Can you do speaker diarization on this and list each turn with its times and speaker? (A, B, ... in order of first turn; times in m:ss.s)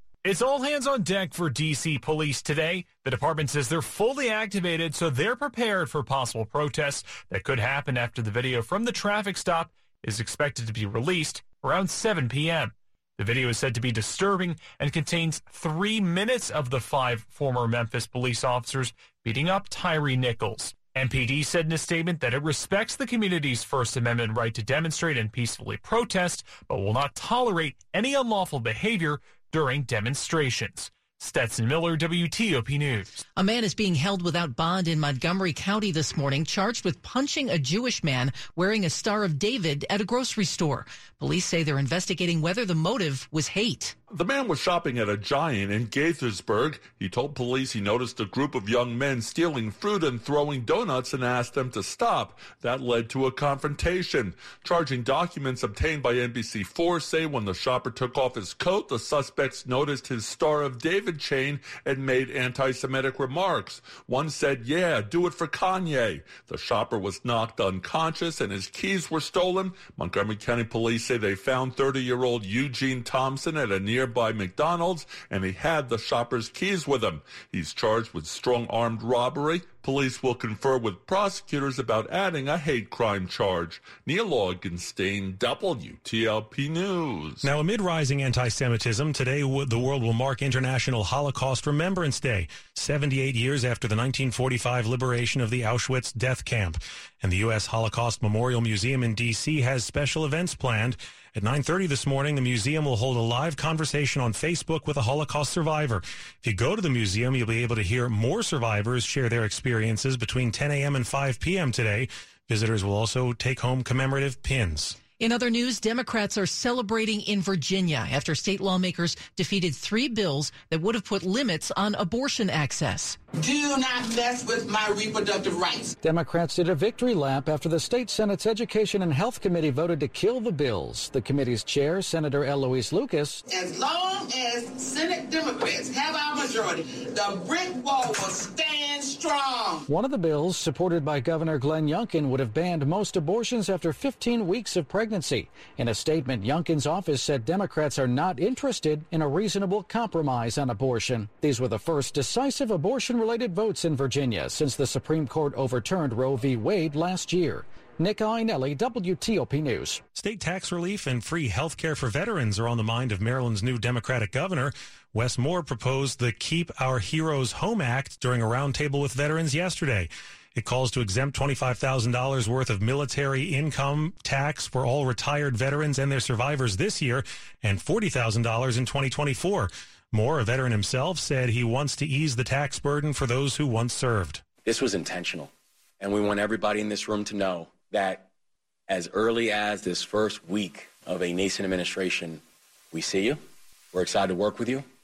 0:00.2-0:33.1 A
0:33.4-0:44.0 B
0:44.1-1:27.5 C
1:27.4-1:55.0 D
1:55.2-2:03.2 B
2:03.4-2:06.0 E
2:06.0-2:13.4 F
2:13.5-2:19.9 E
2:19.9-2:40.0 F
2:40.2-3:04.5 D
3:04.6-3:08.3 G
3:08.9-3:13.4 G
3:13.9-3:14.8 G